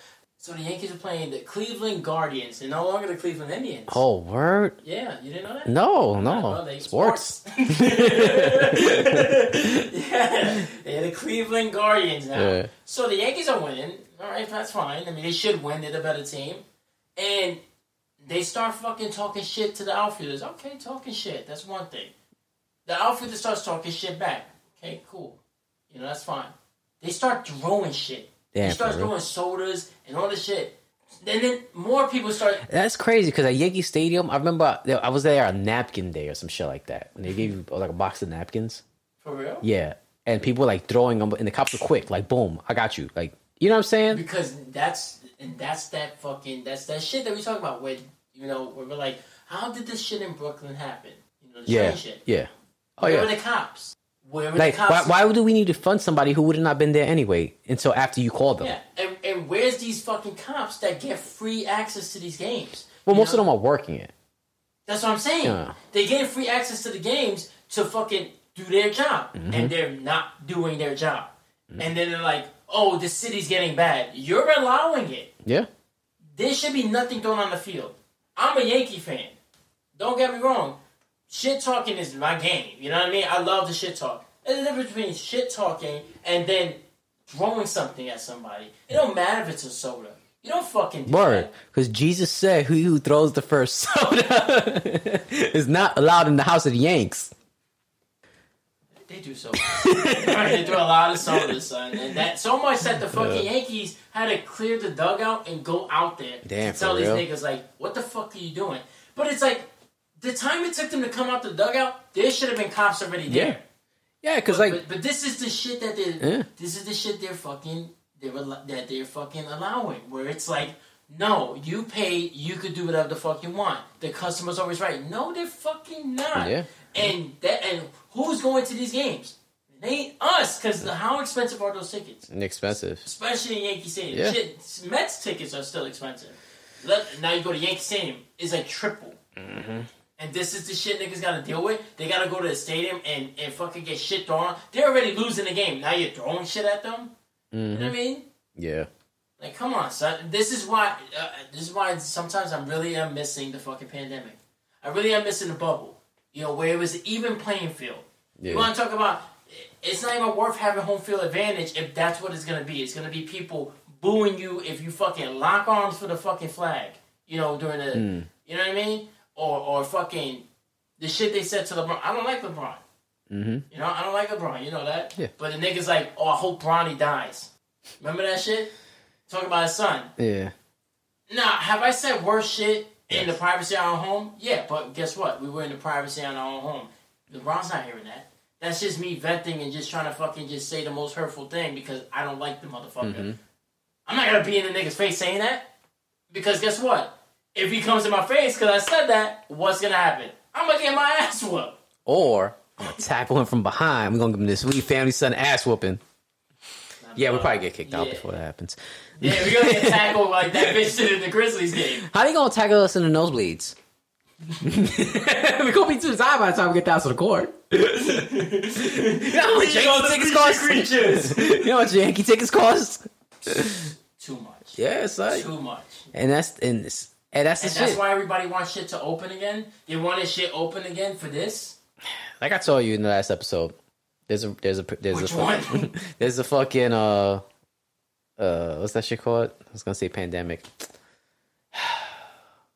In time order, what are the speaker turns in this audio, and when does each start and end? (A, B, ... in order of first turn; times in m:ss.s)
0:00.4-0:04.0 A
0:03.9-0:04.8 B
0:04.8-0:16.6 A
0:05.6-0:09.6 B
0:12.3-0:12.7 B
0:17.2-0:17.6 A
0:18.2-0:22.1 A
0:22.8-0:25.4 A
0:25.9-0:32.6 A
0:28.5-0:29.1 B
0:32.6-0:38.8 B
0:39.2-0:39.6 A
0:39.6-0:44.2 B
0:44.1-0:52.2 A
0:51.7-0:53.3 B
0:53.0-0:55.1 A
0:54.6-0:58.7 B
0:58.6-1:03.4 A
1:03.0-1:04.1 B
1:04.9-1:15.3 A
1:05.4-1:05.8 B
1:09.4-1:09.7 B
1:16.3-1:19.4 A
1:19.9-1:20.8 A
1:21.3-1:31.5 A
1:31.1-1:37.3 B
1:39.1-1:49.7 A
1:39.7-1:41.5 B
1:43.0-1:43.5 B
1:46.4-1:47.2 B
1:50.2-1:53.6 A
1:53.3-1:53.6 B
1:54.2-1:54.8 B
1:54.5-2:12.3 A
1:56.2-1:56.5 B
2:06.4-2:07.1 B
2:12.3-2:13.0 B
2:13.0-2:19.2 A
2:14.1-2:14.4 B
2:19.4-2:19.9 B
2:20.2-2:27.1 A
2:27.5-2:27.9 B
2:27.7-2:28.2 A
2:28.6-2:28.9 B
2:29.4-2:50.4 A
2:38.4-2:38.7 B
2:47.9-2:48.3 B
2:51.0-2:52.8 A
2:53.3-2:53.6 B
2:53.7-2:58.7 A
2:59.3-3:00.1 A
3:00.2-3:00.5 B
3:01.3-3:13.3 A
3:03.1-3:03.4 B
3:13.0-3:13.4 B
3:14.1-3:15.7 A
3:16.3-3:21.8 A
3:22.0-3:26.0 B
3:27.0-3:28.3 A
3:27.2-3:30.8 B
3:29.2-3:32.0 A
3:32.0-3:33.8 B
3:34.6-3:43.9 B
3:37.9-3:41.7 A
3:43.4-3:46.0 A
3:44.8-3:45.5 B
3:46.1-3:48.0 B
3:47.6-3:51.8 A
3:52.4-3:53.7 B
3:54.3-3:57.4 B
3:55.1-3:56.0 A
3:58.4-4:00.7 B
4:01.7-4:02.3 B